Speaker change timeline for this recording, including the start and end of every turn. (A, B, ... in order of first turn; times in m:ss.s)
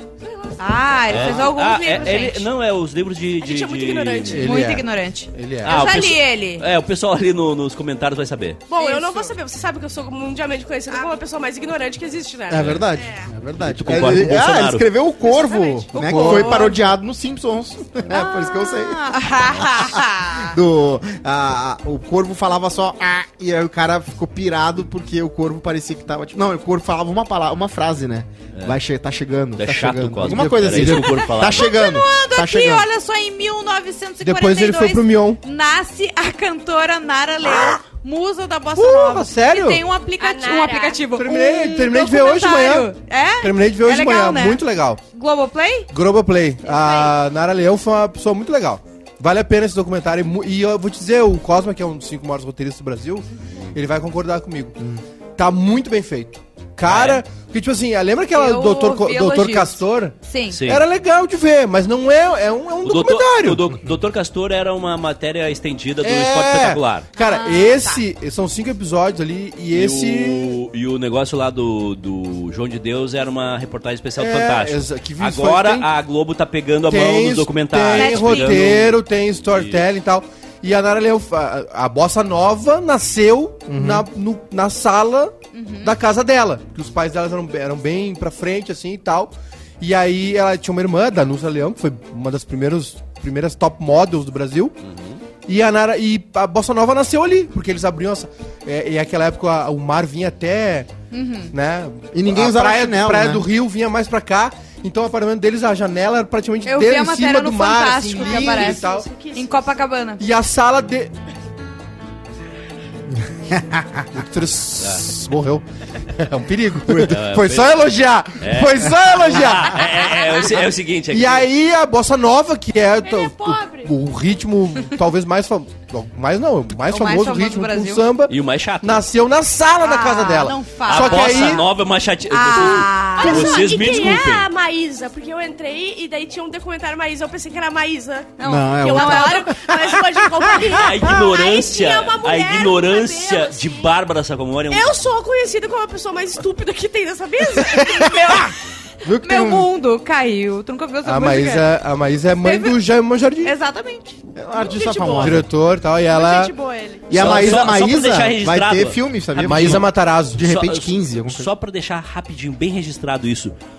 0:00.2-0:02.3 A
0:00.6-0:02.5 B
0:01.1-0:04.5 C
0:03.4-0:04.5 A
0:04.3-0:05.9 D
0:04.4-0:06.6 B
0:05.6-0:08.6 C
0:08.7-0:12.8 A
0:08.8-0:09.3 B
0:12.5-0:19.0 E
0:12.6-0:12.8 C
0:13.0-0:13.2 B
0:13.6-0:14.9 C
0:15.2-0:16.7 A
0:15.9-0:16.8 B
0:18.1-0:20.6 B
0:19.6-0:32.9 E
0:29.6-0:31.8 C
0:30.2-0:31.1 D
0:31.2-0:44.6 B
0:34.2-0:35.4 D
0:37.4-0:37.8 D
0:38.8-0:39.8 D
0:40.2-0:41.1 A
0:41.2-0:42.9 D
0:43.4-0:45.0 D
0:45.1-0:45.9 B
0:45.9-0:54.8 D
0:46.7-0:47.1 A
0:55.4-1:03.7 D
0:56.9-0:57.2 C
0:58.3-1:00.6 B
1:00.5-1:00.8 C
1:02.8-1:07.1 C
1:06.0-1:10.6 D
1:07.2-1:08.0 B
1:09.7-1:19.0 C
1:14.2-1:15.9 D
1:16.9-1:34.8 D
1:17.9-1:18.6 B
1:19.5-1:19.8 C
1:23.7-1:24.1 E
1:25.5-1:25.9 B
1:34.8-1:35.2 C
1:35.5-1:40.9 D
1:41.1-1:41.5 B
1:41.5-1:49.1 D
1:42.1-1:43.5 E
1:46.6-1:50.2 B
1:48.1-1:49.5 A
1:50.2-1:51.1 D
1:53.2-1:54.0 E
1:54.1-2:00.1 D
1:54.8-1:55.0 C
1:56.9-1:57.5 E
1:57.1-2:01.5 C
2:01.1-2:11.6 D
2:03.0-2:03.9 A
2:06.7-2:08.0 B
2:08.3-2:09.1 C
2:09.8-2:11.7 B
2:10.9-2:14.5 C
2:12.3-2:14.0 B
2:12.5-2:23.8 A
2:18.4-2:19.6 B
2:18.4-2:19.6 E
2:20.6-2:25.0 C
2:24.7-2:28.5 A
2:27.7-2:28.4 D
2:27.8-2:28.6 B
2:29.0-2:29.7 E
2:29.2-2:31.7 B
2:31.0-2:33.5 D
2:32.4-2:32.8 B
2:33.4-2:34.2 B
2:34.4-2:35.5 E
2:34.6-2:35.4 A
2:35.2-2:36.5 D
2:36.1-2:37.1 A
2:37.1-2:37.9 D
2:37.1-2:41.5 E
2:37.1-2:39.9 C
2:39.4-2:40.5 D
2:40.4-2:43.5 C